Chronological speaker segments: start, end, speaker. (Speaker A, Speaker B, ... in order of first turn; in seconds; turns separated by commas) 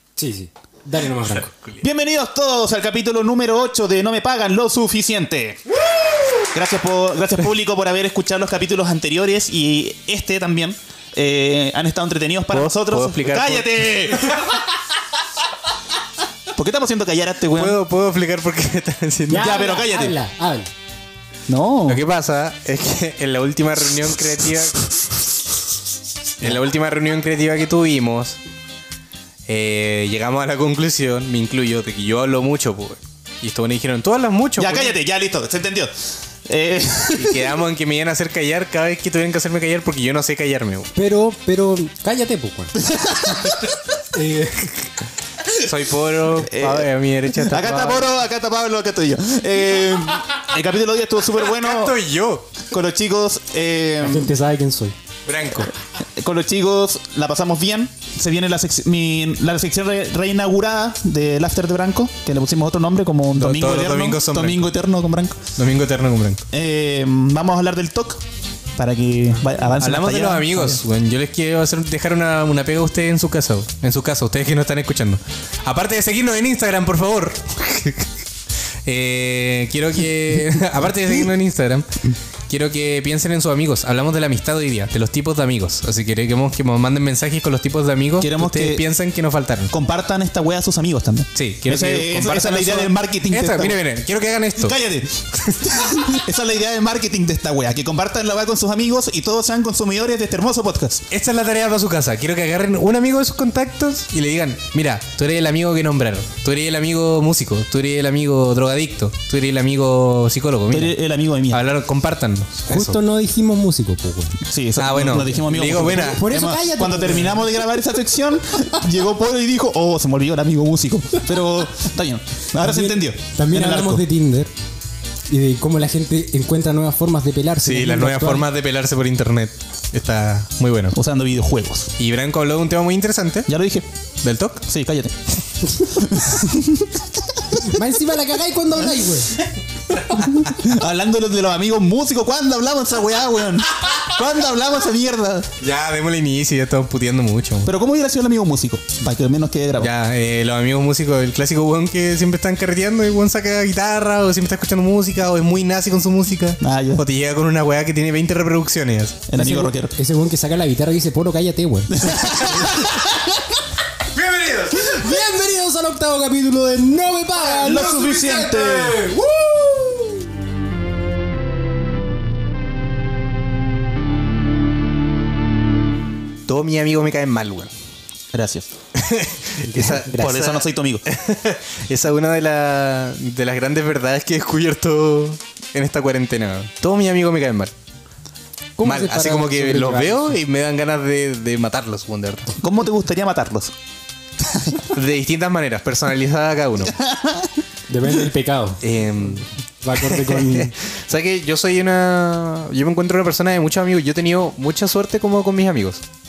Speaker A: 0.2-1.5, Speaker B: 1.2-1.8, Speaker C: 1.8-5.6, Speaker C: 6.5-14.5, Speaker B: 12.5-14.6, Speaker C: 16.5-17.8, Speaker B: 17.6-19.5, Speaker A: 19.3-20.7, Speaker C: 19.3-20.2, Speaker C: 21.5-22.0, Speaker B: 21.9-24.9, Speaker B: 26.4-28.4, Speaker B: 29.5-35.0, Speaker C: 34.6-37.5, Speaker B: 37.1-40.9, Speaker A: 41.0-43.6, Speaker C: 42.8-43.6, Speaker A: 44.1-44.9, Speaker B: 45.5-48.1, Speaker C: 46.4-52.0, Speaker B: 51.4-52.5, Speaker C: 52.6-54.3, Speaker A: 54.0-55.0, Speaker B: 55.3-55.7, Speaker C: 56.2-65.5, Speaker B: 63.4-64.7, Speaker B: 65.6-66.4, Speaker C: 66.5-68.2, Speaker C: 68.8-70.8, Speaker B: 69.8-78.1, Speaker B: 78.8-89.7, Speaker C: 88.2-88.8, Speaker C: 89.7-93.8, Speaker B: 91.3-94.8, Speaker C: 94.6-101.1, Speaker B: 95.5-96.0, Speaker B: 101.1-111.0, Speaker C: 110.7-111.6, Speaker B: 111.5-113.0, Speaker A: 112.7-114.4, Speaker C: 114.5-124.0, Speaker B: 114.8-116.2, Speaker A: 115.9-117.7, Speaker A: 122.6-124.5, Speaker A: 125.3-128.5, Speaker B: 127.6-131.0, Speaker C: 130.9-131.9, Speaker B: 132.0-133.5, Speaker C: 133.5-133.9, Speaker B: 134.2-134.7, Speaker C: 134.7-135.2, Speaker C: 135.7-137.8, Speaker A: 137.6-139.4, Speaker B: 140.1-140.4, Speaker C: 140.4-145.5, Speaker B: 145.6-147.7, Speaker C: 147.7-149.9, Speaker B: 149.8-159.2, Speaker C: 156.6-157.1, Speaker C: 159.3-159.9, Speaker A: 159.3-163.4, Speaker C: 161.9-162.9, Speaker B: 162.2-162.8, Speaker B: 164.1-165.1, Speaker A: 164.7-170.3, Speaker C: 167.5-169.0, Speaker B: 167.7-169.1, Speaker B: 176.5-177.7, Speaker C: 178.3-178.7, Speaker B: 178.9-187.7, Speaker A: 179.6-180.4, Speaker C: 180.1-181.1, Speaker A: 188.8-190.4, Speaker B: 188.8-192.5, Speaker C: 192.6-193.7, Speaker C: 194.4-194.9, Speaker B: 194.9-197.0, Speaker C: 196.9-197.5, Speaker A: 197.9-198.8, Speaker B: 198.8-206.0, Speaker A: 199.8-200.7